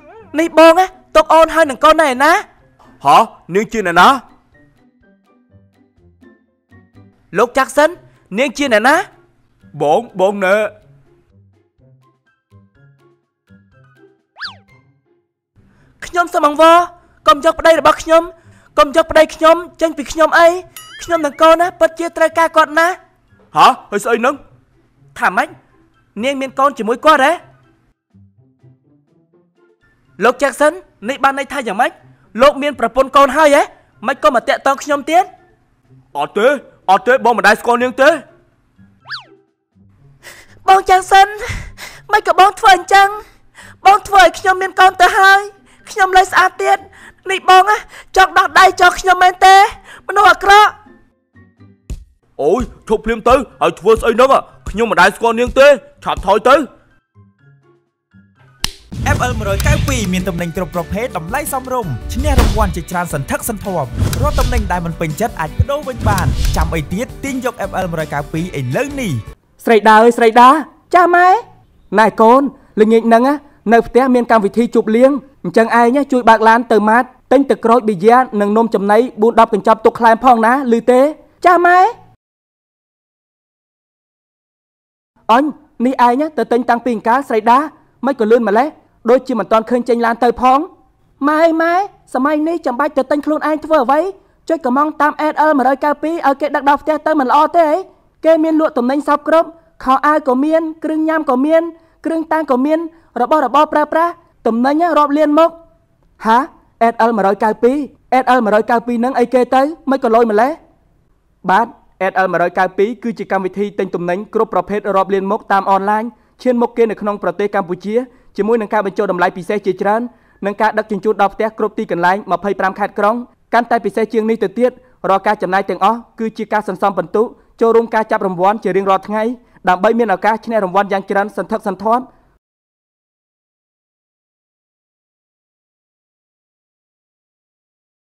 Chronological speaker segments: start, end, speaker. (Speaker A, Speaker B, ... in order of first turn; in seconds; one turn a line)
Speaker A: 0.3-2.4
Speaker B: 3.0-4.0
Speaker A: 3.1-4.1
Speaker A: 7.3-9.1
Speaker B: 9.7-10.7
Speaker A: 16.0-23.0
Speaker B: 23.6-24.3
Speaker A: 23.6-24.3
Speaker A: 25.1-25.5
Speaker A: 26.1-27.4
Speaker A: 30.2-35.3
Speaker B: 36.1-38.2
Speaker A: 40.6-43.2
Speaker A: 43.8-50.7
Speaker B: 52.4-56.6
Speaker A: 56.0-56.2
Speaker C: 59.0-69.2
Speaker A: 69.6-81.9
Speaker A: 85.3-90.7
Speaker A: 91.2-105.5
Speaker A: 106.2-110.6
Speaker A: 111.4-132.1